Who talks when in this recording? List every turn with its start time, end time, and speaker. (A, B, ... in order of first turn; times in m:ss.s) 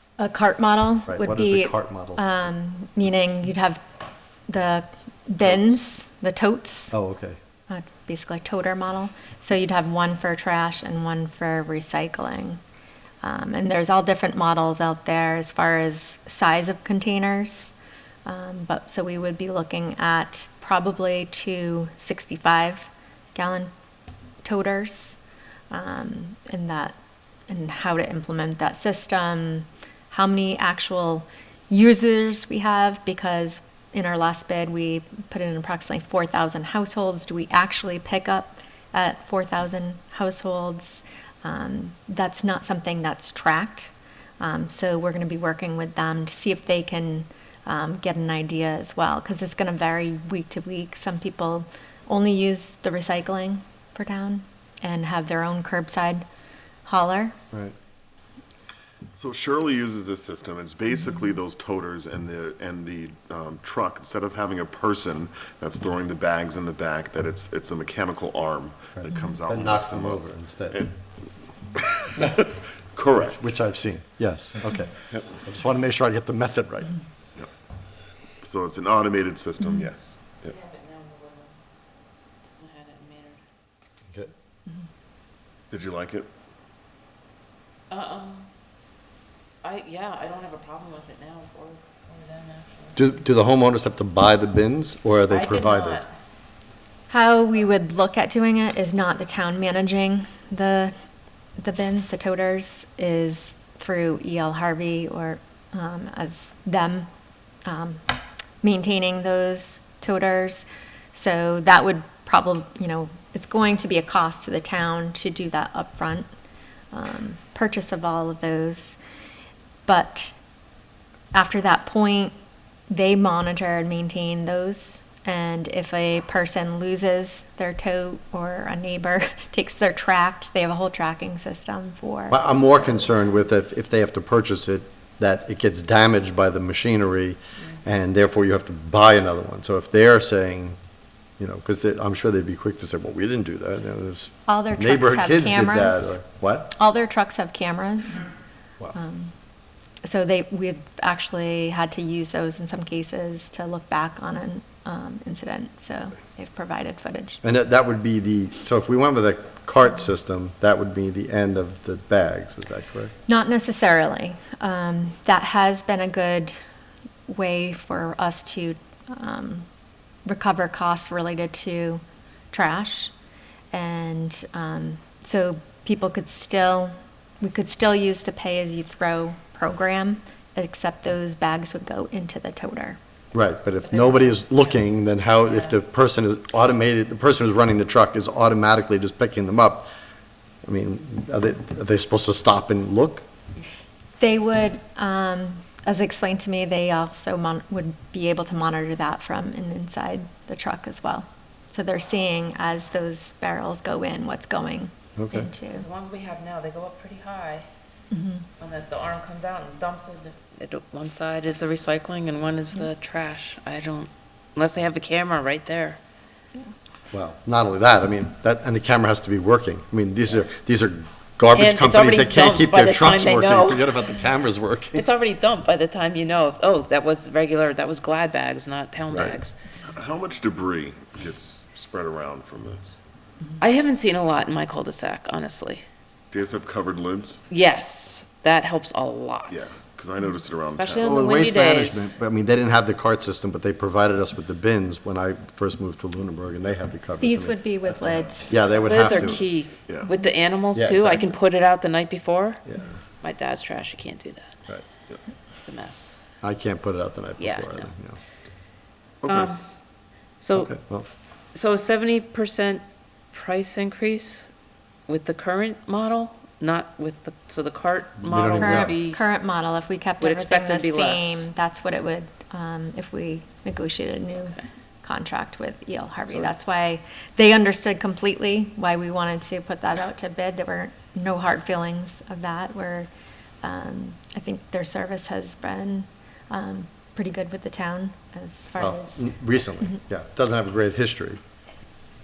0:00.2-0:03.8 A
0:01.0-0:02.2 B
0:04.5-0:06.9 A
0:06.9-0:07.4 B
0:07.7-0:12.6 A
0:13.2-0:23.7 A
0:24.4-0:25.2 A
0:25.7-0:26.9 A
0:27.5-0:56.2 A
0:56.8-0:57.4 A
0:59.1-1:11.0 C
1:09.0-1:10.8 B
1:11.7-1:13.4 C
1:12.2-1:12.4 B
1:13.2-1:17.0 B
1:18.4-1:20.6 C
1:20.5-1:21.6 D
1:22.6-1:23.4 D
1:25.7-1:26.3 C
1:27.9-1:28.5 D
1:29.6-1:33.0 D
1:33.0-1:36.0 B
1:35.3-1:36.1 D
1:37.1-1:40.9 A
1:41.6-1:47.1 A
1:47.6-1:56.3 A
1:56.9-1:59.0 A
1:59.8-2:00.3 A
2:01.3-2:02.3 A
2:02.9-2:12.9 A
2:12.3-2:20.8 B
2:21.4-2:26.7 B
2:24.4-2:26.2 A
2:26.7-2:28.2 A
2:28.9-2:29.3 A
2:30.0-2:37.4 A
2:37.4-2:43.1 B
2:43.3-2:46.5 A
2:47.3-2:49.7 A
2:50.2-2:53.1 A
2:53.7-3:03.0 A
3:03.3-3:09.9 B
3:03.8-3:04.7 D
3:05.4-3:05.7 D
3:10.6-3:13.2 B
3:14.2-3:25.8 A
3:25.2-3:25.5 B
3:25.7-3:27.6 D
3:28.1-3:28.4 A
3:28.6-3:36.0 D
3:37.1-3:45.1 B
3:41.5-3:44.1 D
3:44.9-3:49.5 D
3:49.1-3:49.4 B
3:49.9-3:53.0 C
3:53.6-3:55.8 D
3:56.3-3:57.4 C
3:57.5-3:59.7 D
3:59.5-4:01.3 C
4:00.7-4:02.2 D
4:01.0-4:09.4 B
4:07.2-4:08.8 A
4:08.8-4:12.6 D
4:10.7-4:11.3 B
4:12.6-4:13.0 B
4:13.2-4:14.6 D
4:15.6-4:16.2 D
4:16.4-4:18.2 B
4:17.4-4:17.9 D
4:19.2-4:19.5 C
4:19.2-4:19.6 D
4:20.4-4:20.7 D
4:20.5-4:21.1 B
4:21.5-4:24.5 D
4:25.1-4:29.2 D
4:28.2-4:28.9 B
4:28.5-4:43.1 A
4:30.2-4:31.5 D
4:43.6-4:49.2 A
4:48.8-4:51.4 B